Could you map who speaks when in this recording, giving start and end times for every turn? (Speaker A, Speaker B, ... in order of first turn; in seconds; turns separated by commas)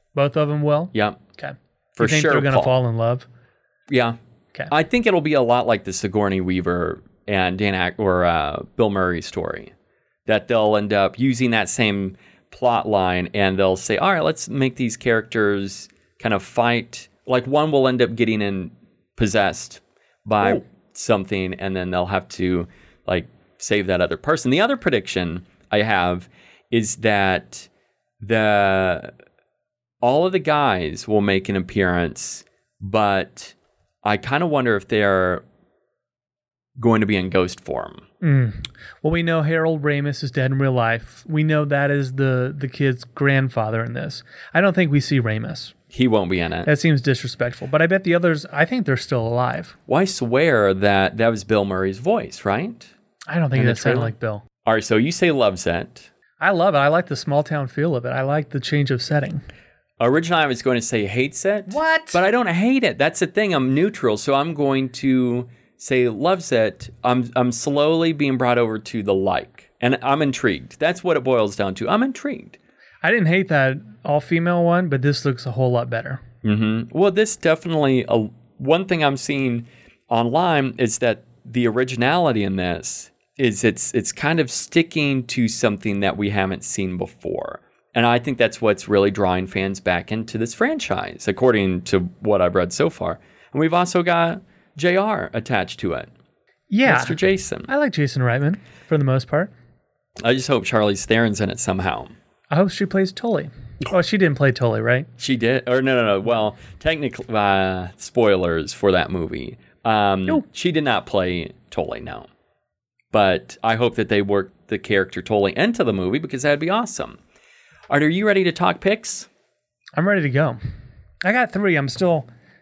Speaker A: 0.1-3.3, Speaker B: 0.9-1.2, Speaker B: 1.9-2.7, Speaker B: 3.9-4.2, Speaker B: 4.7-9.7, Speaker B: 10.2-27.7, Speaker B: 28.2-29.1, Speaker B: 30.0-35.4, Speaker B: 36.8-38.0, Speaker A: 38.2-45.7, Speaker B: 45.9-46.7, Speaker A: 46.6-49.7, Speaker B: 49.9-52.9, Speaker A: 53.3-54.4, Speaker B: 53.5-56.1, Speaker A: 56.4-59.4, Speaker B: 60.0-72.6, Speaker A: 61.7-62.2, Speaker A: 73.0-76.2, Speaker B: 76.4-96.1, Speaker A: 96.7-99.5, Speaker B: 96.8-97.7, Speaker B: 100.2-102.1, Speaker A: 102.5-105.1, Speaker B: 105.2-112.3, Speaker B: 113.1-117.2, Speaker B: 117.9-119.3, Speaker A: 120.0-120.6, Speaker A: 121.2-122.3